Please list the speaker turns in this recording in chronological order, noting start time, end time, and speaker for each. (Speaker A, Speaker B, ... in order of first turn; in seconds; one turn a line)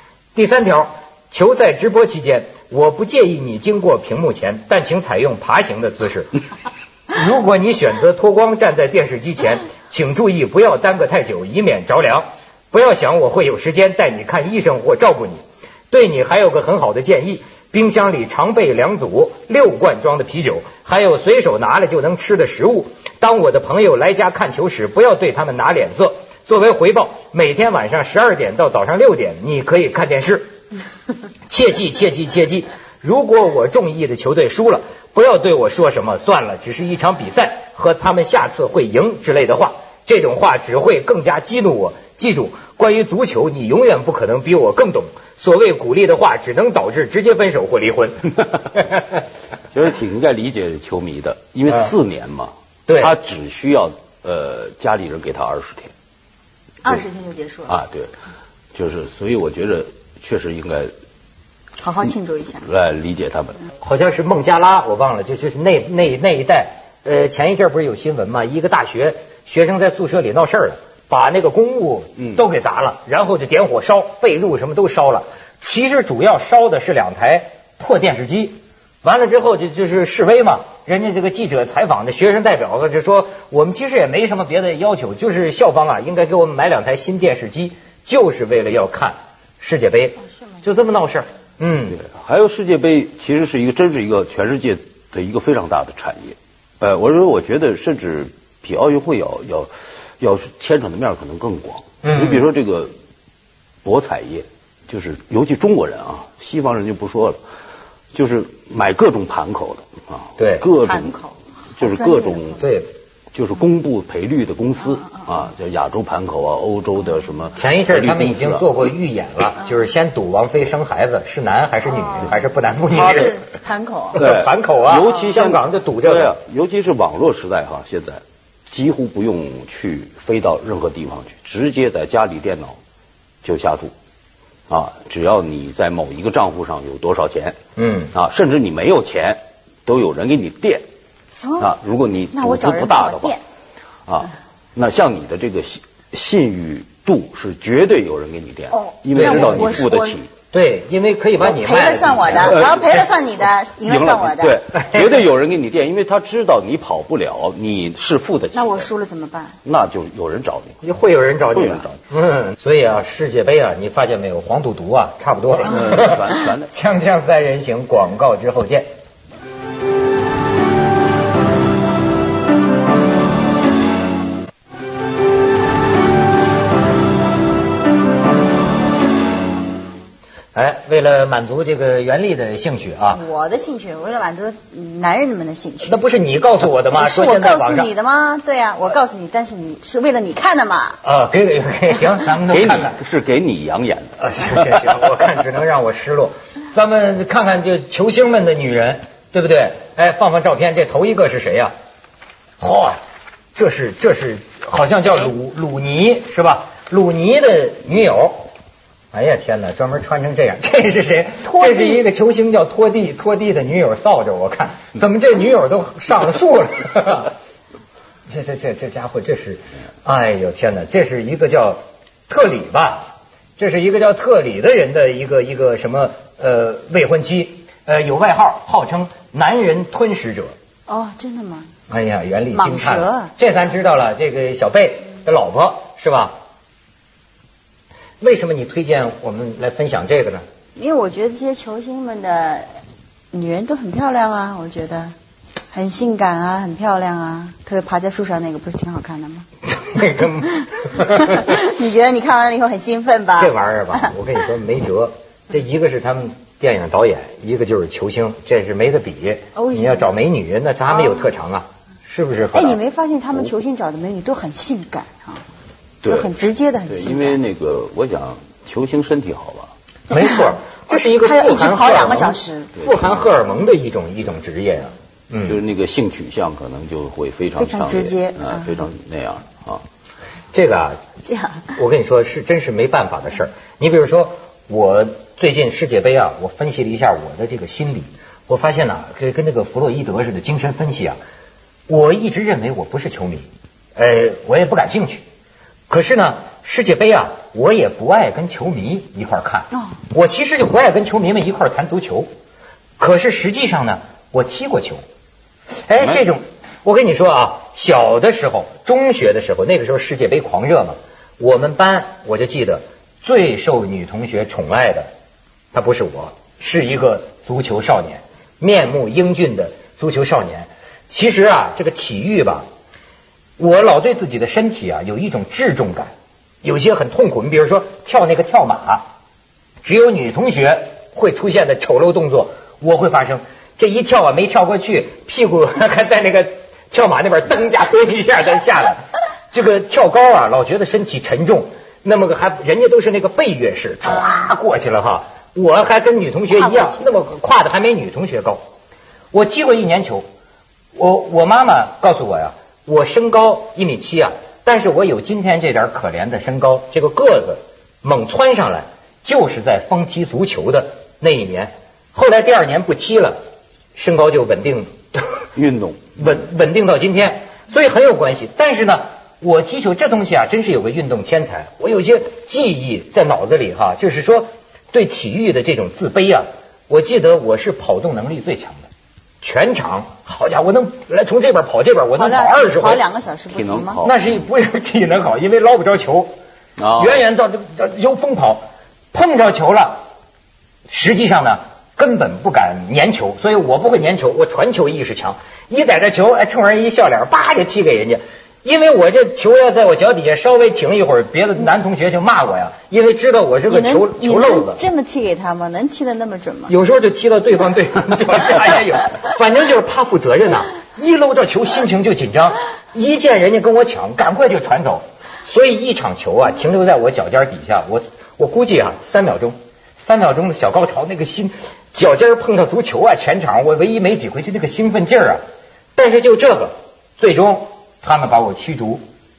Speaker A: 0.3-6.3
Speaker A: 7.1-30.5
Speaker A: 31.5-49.0
Speaker B: 49.7-55.9
Speaker A: 52.9-53.1
Speaker C: 56.8-57.8
Speaker B: 57.7-58.1
Speaker B: 58.8-60.9
Speaker C: 61.8-62.6
Speaker B: 62.6-63.6
Speaker A: 63.8-92.0
Speaker B: 91.9-102.9
Speaker A: 102.0-102.5
Speaker B: 103.8-107.4
Speaker B: 108.1-111.2
Speaker A: 110.4-110.7
Speaker C: 110.8-112.6
Speaker B: 111.8-112.7
Speaker A: 112.6-112.9
Speaker B: 113.3-118.7
Speaker A: 117.6-123.4
Speaker C: 121.9-122.4
Speaker C: 122.9-124.2
Speaker B: 122.9-123.3
Speaker A: 124.2-126.3
Speaker B: 124.2-132.8
Speaker B: 133.4-133.9
Speaker B: 134.7-137.6
Speaker A: 137.8-138.1
Speaker B: 138.1-140.8
Speaker C: 141.4-141.8
Speaker B: 141.6-143.4
Speaker C: 142.3-143.4
Speaker B: 144.1-150.3
Speaker C: 148.7-150.2
Speaker A: 149.2-149.7
Speaker A: 150.5-152.8
Speaker C: 151.4-154.6
Speaker B: 152.3-158.9
Speaker A: 154.7-155.3
Speaker C: 158.5-159.6
Speaker B: 159.6-160.8
Speaker A: 160.8-168.9
Speaker B: 161.5-162.0
Speaker B: 165.6-166.7
Speaker A: 180.6-183.2
Speaker C: 183.1-186.0
Speaker A: 185.8-187.9
Speaker C: 186.9-191.0
Speaker A: 191.0-193.0
Speaker B: 192.5-194.9
Speaker A: 194.2-201.7
Speaker A: 202.6-203.0
Speaker A: 203.6-208.5
Speaker A: 209.1-217.3
Speaker C: 211.5-212.0
Speaker A: 218.3-230.5
Speaker C: 230.9-231.7
Speaker A: 231.9-236.3
Speaker C: 232.5-233.3
Speaker A: 238.2-240.4
Speaker C: 240.8-242.7
Speaker C: 243.3-245.2
Speaker C: 245.7-249.5
Speaker A: 249.7-251.4
Speaker C: 251.2-254.1
Speaker A: 253.4-262.8
Speaker C: 259.6-260.1
Speaker C: 260.9-261.4
Speaker C: 262.5-265.4
Speaker B: 266.0-266.3
Speaker C: 266.1-267.4
Speaker B: 266.9-269.7
Speaker A: 270.1-275.6
Speaker C: 270.1-272.7
Speaker B: 272.8-273.3
Speaker B: 275.4-279.8
Speaker C: 277.6-278.9
Speaker A: 280.5-281.0
Speaker C: 281.2-281.7
Speaker A: 281.8-291.2
Speaker A: 291.9-295.2
Speaker A: 295.9-302.3
Speaker A: 303.0-305.0
Speaker A: 305.9-315.1
Speaker A: 315.7-322.7
Speaker A: 323.6-329.0
Speaker A: 329.8-348.6
Speaker C: 346.5-347.0
Speaker A: 349.3-350.2
Speaker A: 350.9-363.4
Speaker A: 364.0-365.4
Speaker B: 365.6-366.2
Speaker A: 366.2-378.9
Speaker A: 379.4-383.0
Speaker C: 382.2-384.1
Speaker B: 383.5-384.2
Speaker A: 384.0-386.3
Speaker B: 386.8-387.2
Speaker A: 387.0-390.0
Speaker A: 390.9-404.8
Speaker C: 403.7-406.7
Speaker A: 406.7-425.4
Speaker A: 426.0-429.0